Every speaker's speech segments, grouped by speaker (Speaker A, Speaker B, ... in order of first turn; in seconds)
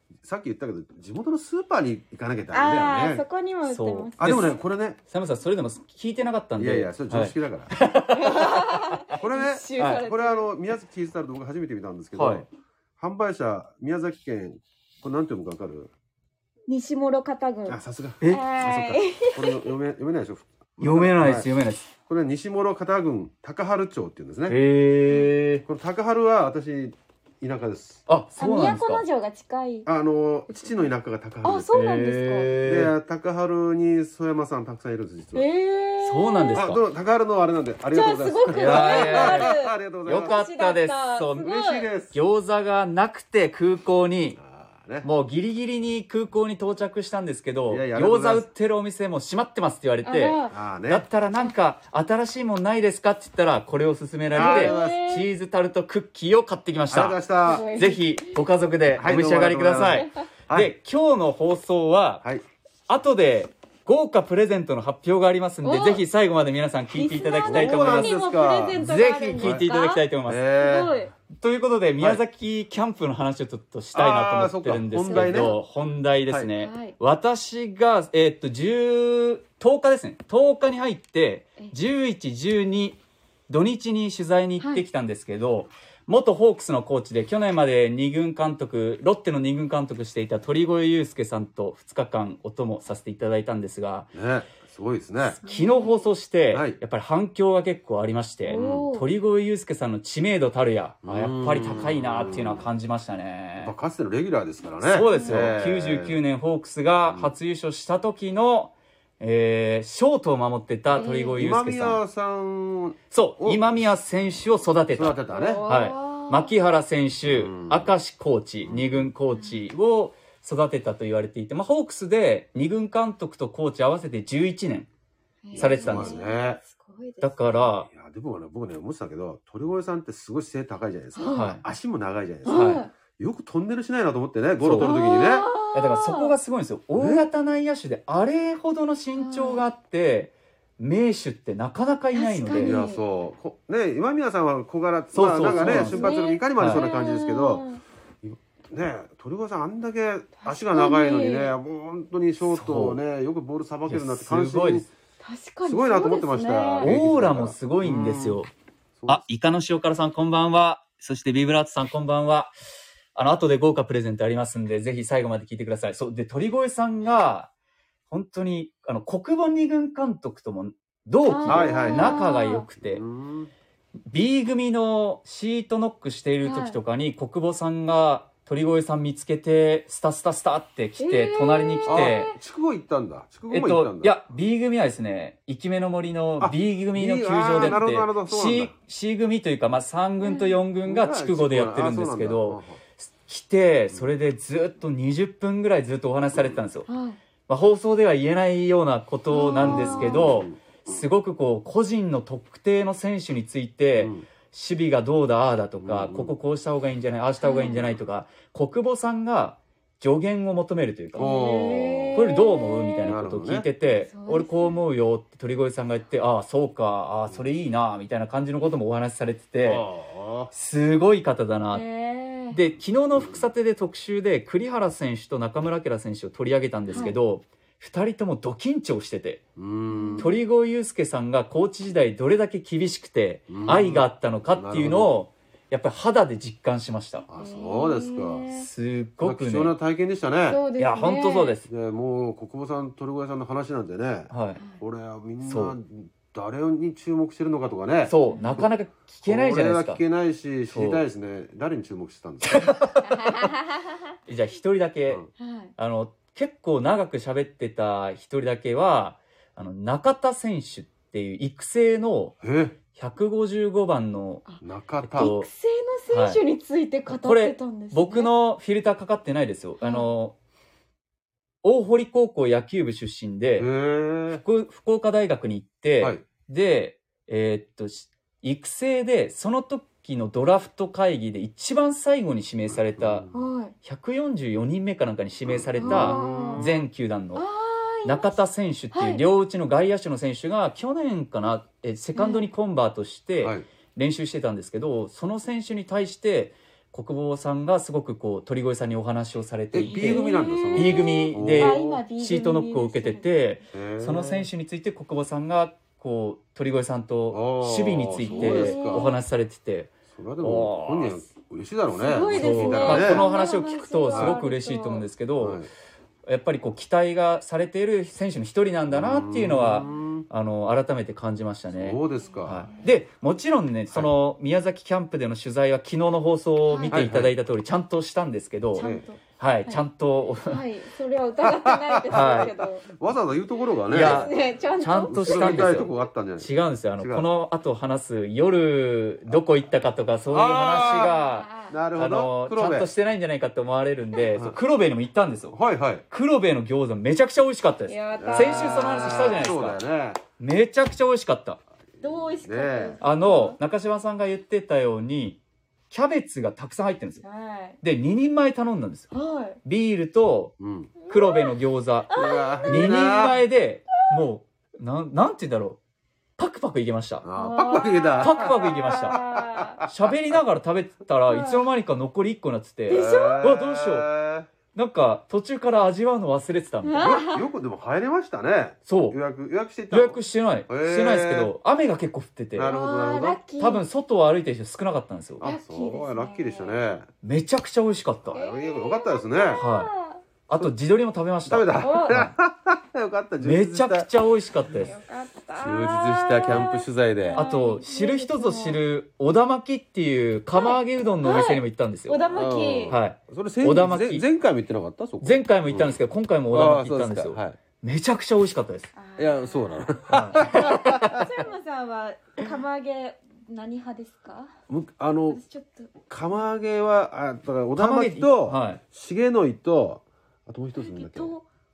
Speaker A: 0.2-3.2, 4.2-5.0, 6.6-7.7, 9.1-12.5, 13.0-15.9, 17.7-21.5, 22.1-24.6, 25.6-28.0, 29.9-31.8, 32.6-35.5, 36.5-40.4, 41.4-42.2, 44.4-45.1, 47.7-48.5, 50.5-51.1, 54.3-55.2, 56.9-57.7, 58.9-60.7, 67.4-68.8, 69.4-69.7, 70.3-71.0, 73.9-75.5, 94.1-95.4, 96.5-96.8, 98.5-98.9, 101.0-102.7, 103.6-106.2, 111.4-113.8, 114.9-115.6, 117.3-117.9, 118.7-119.1, 125.5-126.6, 127.9-135.5, 137.0-137.3, 142.6-147.7, 148.2-154.9, 155.7-158.4, 159.0-159.2, 171.5-172.2, 172.8-173.5, 181.9-184.2, 186.4-188.7, 190.8-192.8, 196.3-196.6, 199.6-201.0, 204.0-204.3, 205.8-206.3, 211.2-212.3, 213.0-213.7, 219.6-220.5, 223.2-223.4, 229.6-230.3, 233.5-235.2, 237.3-238.5, 239.2-240.6, 241.7-248.7, 249.3-252.8, 262.4-262.8, 264.6-265.3, 273.6-274.4, 282.7-283.4, 285.5-286.9, 299.7-302.0, 303.7-304.5, 307.3-309.1, 310.1-313.3, 314.1-314.4, 315.4-315.7, 318.9-320.3, 321.7-322.7, 326.9-327.3, 328.8-329.1, 331.4-334.3, 335.1-337.3, 340.3-342.9, 345.5-346.0, 348.2-350.2, 352.0-353.0, 360.6-360.9, 362.1-363.4, 367.2-369.9, 372.9-374.5, 377.0-381.5, 382.5-383.4, 385.4-387.1, 388.3-389.6, 391.5-394.1, 395.6-397.4, 402.3-406.0, 406.5-407.6, 409.2-411.3, 414.7-415.4, 416.1-421.3
Speaker B: 2.5-4.5, 8.2-10.5, 16.7-19.7, 28.4-29.9, 30.5-30.9, 31.4-32.5, 35.3-36.6, 37.9-41.9, 50.0-50.6, 54.3-55.3, 57.4-58.4, 65.6-66.0, 67.0-71.1, 75.1-75.6, 76.6-77.0, 95.4-96.0, 98.5-99.1, 105.0-105.5, 110.9-111.4, 115.3-116.5, 119.3-119.6, 125.4-127.7, 131.2-131.6, 132.4-132.9, 134.8-136.3, 139.2-139.6, 142.1-143.0, 145.5-147.8, 150.4-151.5, 155.2-156.9, 171.3-172.7, 176.4-176.8, 181.0-182.3, 190.2-190.6, 196.9-197.2, 199.3-200.4, 207.4-207.8, 211.2-213.1, 213.8-214.8, 221.7-222.6, 229.9-230.3, 237.4-238.7, 240.5-241.6, 253.1-254.0, 255.4-255.7, 265.1-268.3, 269.8-270.1, 283.3-283.7, 285.8-286.7, 287.4-288.4, 288.9-289.2, 292.1-292.5, 299.8-303.3, 308.2-309.2, 311.9-315.1, 322.2-322.9, 326.7-327.1, 328.8-329.8, 330.4-332.9, 333.9-335.9, 340.8-341.8, 347.9-349.2, 352.0-353.6, 357.2-357.8, 359.1-359.6, 361.0-361.6, 362.1-363.3, 367.4-369.9, 371.3-371.6, 372.9-373.5, 376.8-377.4, 382.7-383.9, 385.4-386.8, 388.3-390.2, 391.8-392.3, 394.8-398.8, 400.5-403.0, 408.9-414.5, 415.3-415.9, 420.8-421.4
Speaker C: 3.7-9.2, 9.8-10.0, 12.2-12.4, 20.8-21.9, 24.5-25.6, 28.1-29.0, 31.7-32.9, 36.0-36.8, 38.6-39.5, 40.1-41.5, 42.1-44.4, 45.0-62.2, 62.9-68.2, 68.8-70.5, 71.4-94.1, 95.2-103.7, 104.8-112.0, 113.1-124.9, 125.6-126.2, 127.2-127.9, 131.3-131.6, 132.5-132.8, 134.6-135.0, 135.7-142.8, 145.1-146.8, 152.4-153.0, 153.9-154.9, 156.8-158.5, 159.1-162.5, 163.2-167.5, 168.1-173.0, 174.1-182.3, 183.5-196.9, 197.5-211.3, 212.1-219.9, 220.5-221.8, 222.5-229.4, 230.2-237.2, 238.5-239.7, 240.8-241.7, 244.3-244.6, 245.4-245.8, 248.1-250.0, 250.7-251.0, 252.5-253.4, 254.3-255.3, 255.8-262.4, 262.9-264.5, 265.0-265.5, 266.1-266.4, 267.1-270.4, 271.6-273.7, 274.3-283.3, 283.8-287.4, 288.1-311.2, 312.3-315.6, 316.3-328.9, 329.4-330.6, 332.1-332.5, 333.9-345.6, 346.1-349.8, 350.4-351.6, 353.0-357.2, 357.8-359.1, 359.6-360.6, 361.1-365.8, 366.4-367.3, 368.2-369.2, 369.8-374.1, 374.7-377.2, 378.9-379.2, 379.9-382.8, 383.6-385.5, 387.2-388.4, 389.6-389.9, 390.5-392.3, 393.4-394.9, 397.4-402.3, 402.9-404.3, 405.2-408.9, 410.1-411.2, 417.8-418.8